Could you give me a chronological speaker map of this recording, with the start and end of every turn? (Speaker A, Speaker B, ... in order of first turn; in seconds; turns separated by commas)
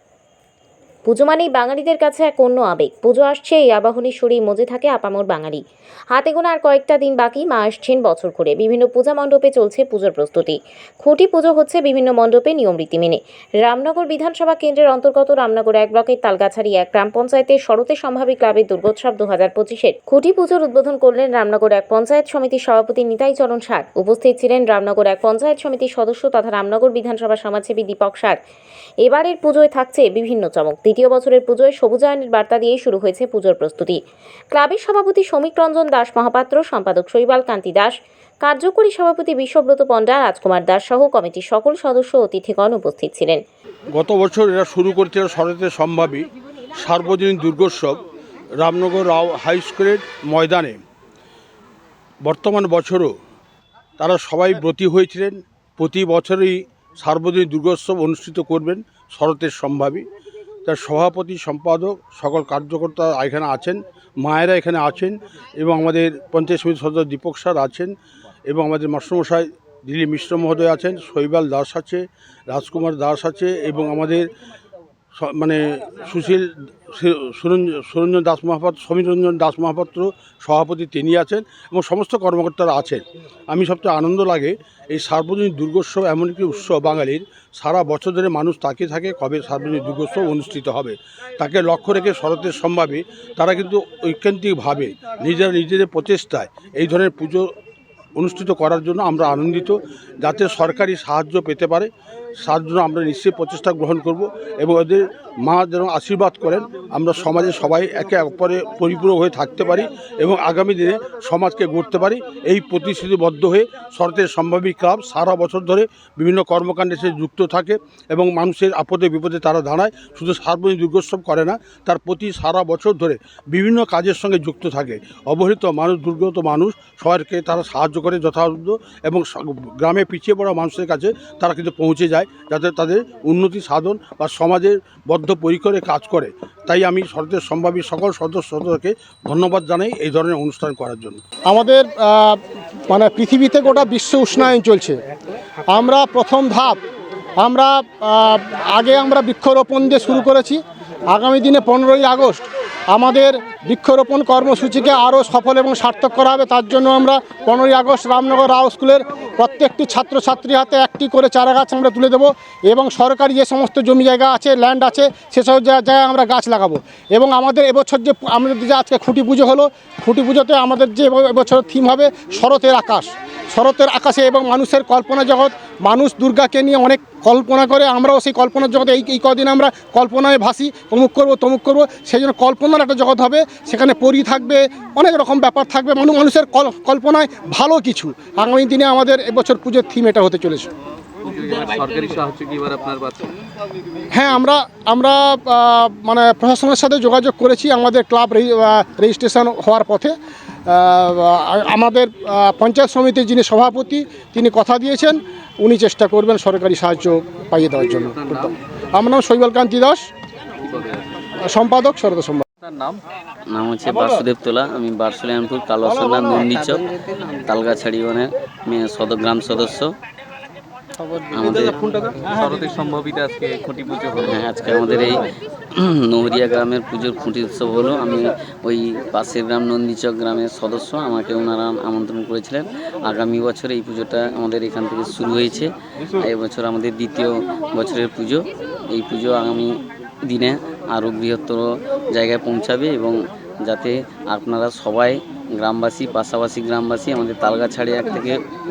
Speaker A: 1.1-5.6, Speaker A: 6.1-28.4, Speaker A: 29.0-34.0, Speaker A: 34.5-43.4, Speaker B: 43.9-48.0, Speaker B: 48.6-50.8, Speaker B: 52.2-53.1, Speaker B: 54.0-60.0, Speaker B: 60.6-67.9, Speaker B: 68.5-74.3, Speaker B: 75.2-97.5, Speaker B: 98.2-101.9, Speaker B: 102.4-141.2, Speaker C: 141.5-145.0, Speaker C: 145.7-146.8, Speaker C: 147.4-150.6, Speaker C: 151.1-190.7, Speaker D: 191.3-193.3, Speaker C: 194.1-200.1, Speaker C: 200.7-210.1, Speaker D: 208.1-208.5, Speaker D: 210.6-211.2, Speaker C: 211.4-212.4, Speaker D: 212.6-213.0, Speaker E: 213.5-219.9, Speaker E: 221.3-221.9, Speaker D: 221.6-224.4, Speaker E: 224.2-248.4